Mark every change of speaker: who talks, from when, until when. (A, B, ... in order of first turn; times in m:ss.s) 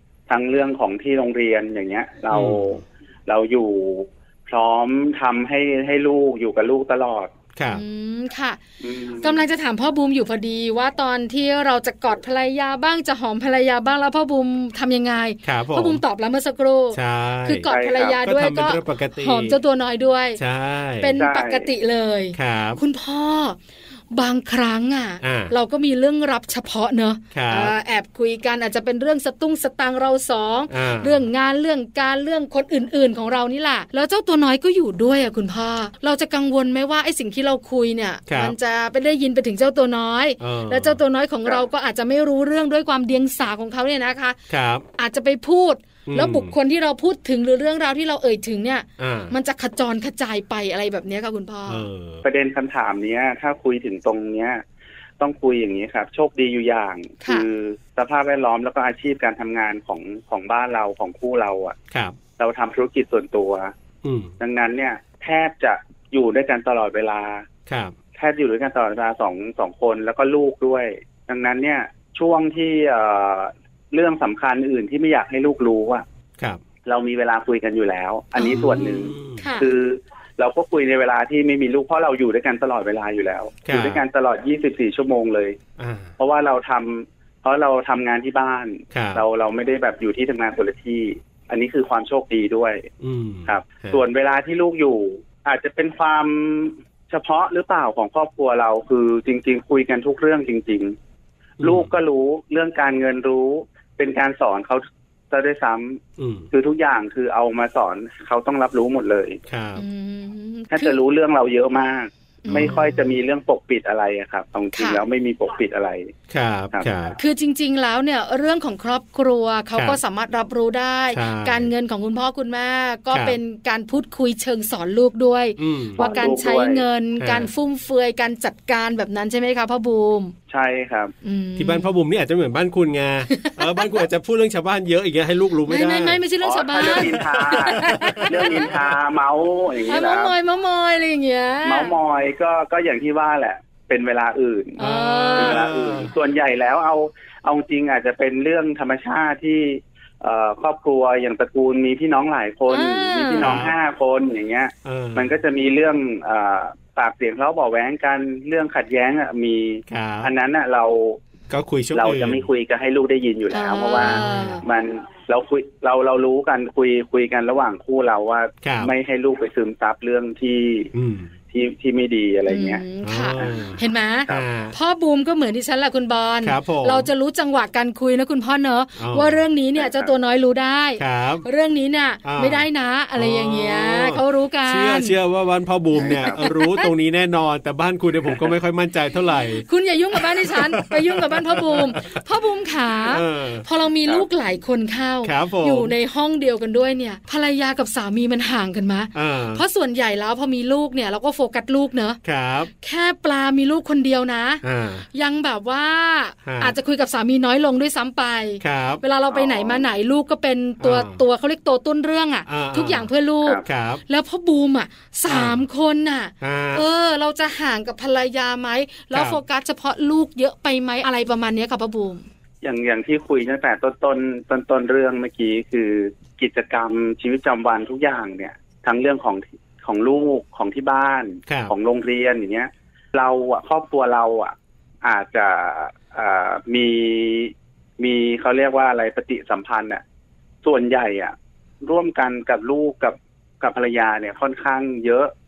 0:00.3-0:07.3 A
0:02.3-0:02.7 B
0:07.6-0:07.8 B
0:07.7-0:08.6 C
0:08.8-0:09.4 A
0:09.2-0:20.4 C
0:15.4-0:16.0 B
0:16.9-0:17.7 B
0:17.7-0:18.2 A
0:18.2-0:19.6 B
0:20.4-0:21.2 B
0:21.0-0:23.6 C
0:21.2-0:21.7 A
0:22.4-0:22.8 B
0:24.1-0:44.4 C
0:25.2-0:25.5 B
0:27.3-0:27.7 B
0:30.7-0:31.2 B
0:38.3-0:38.6 B
0:40.4-0:41.0 B
0:44.5-0:44.9 B
0:45.0-0:51.9 C
0:46.1-0:46.5 B
0:49.0-0:49.4 B
0:51.7-0:52.2 B
0:52.2-0:54.6 A
0:55.2-1:01.8 A
1:01.9-1:02.2 B
1:02.4-1:03.7 A
1:04.0-1:04.3 B
1:04.4-1:07.5 A
1:07.7-1:07.9 B
1:08.2-1:16.0 A
1:16.8-1:25.6 A
1:18.4-1:18.9 C
1:18.5-1:19.4 B
1:19.4-1:19.7 C
1:23.7-1:24.0 B
1:25.8-1:26.1 B
1:26.2-1:32.9 A
1:28.9-1:29.2 B
1:33.0-1:34.0 B
1:33.5-1:41.0 A
1:41.6-1:41.9 B
1:41.6-1:46.0 A
1:46.2-1:46.5 B
1:46.5-1:49.4 A
1:49.5-1:49.8 B
1:49.8-1:51.0 C
1:50.7-1:56.1 A
1:52.5-1:53.1 B
1:54.8-1:55.0 C
1:56.3-1:57.2 B
1:57.2-2:10.4 C
2:01.1-2:01.7 B
2:03.1-2:03.4 B
2:05.6-2:06.0 B
2:06.0-2:06.9 A
2:07.2-2:07.5 B
2:10.5-2:11.1 A
2:11.2-2:11.9 C
2:11.6-2:16.2 B
2:13.3-2:14.0 C
2:15.7-2:18.6 C
2:16.4-2:20.3 A
2:16.8-2:18.8 B
2:19.9-2:22.0 C
2:21.6-2:24.8 A
2:24.8-2:25.6 C
2:24.8-2:26.1 B
2:25.4-2:41.2 A
2:32.7-2:33.6 C
2:33.4-2:33.8 B
2:34.8-2:35.3 B
2:39.9-2:40.3 B
2:41.5-2:42.5 B
2:41.9-2:50.9 A
2:43.5-2:44.6 C
2:44.0-2:44.6 B
2:48.6-2:48.9 B
2:50.9-2:51.3 B
2:51.5-2:52.8 A
2:52.5-3:05.2 C
2:53.0-2:54.8 B
2:53.4-2:54.4 A
2:56.4-2:57.1 B
2:59.0-2:59.4 B
2:59.8-3:00.1 A
3:01.0-3:01.4 B
3:02.2-3:12.2 B
3:06.0-3:06.9 C
3:09.6-3:22.2 C
3:13.1-3:13.6 B
3:15.2-3:15.9 B
3:19.1-3:19.6 B
3:22.2-3:22.7 B
3:22.8-3:42.3 C
3:24.6-3:25.0 B
3:26.4-3:26.8 B
3:28.6-3:29.0 B
3:29.3-3:29.9 A
3:30.8-3:31.2 B
3:32.5-3:33.1 B
3:33.6-3:34.0 B
3:35.3-3:35.6 B
3:36.4-3:36.8 B
3:39.1-3:39.4 B
3:42.6-4:00.0 A
3:51.5-3:51.7 B
4:00.6-4:05.3 A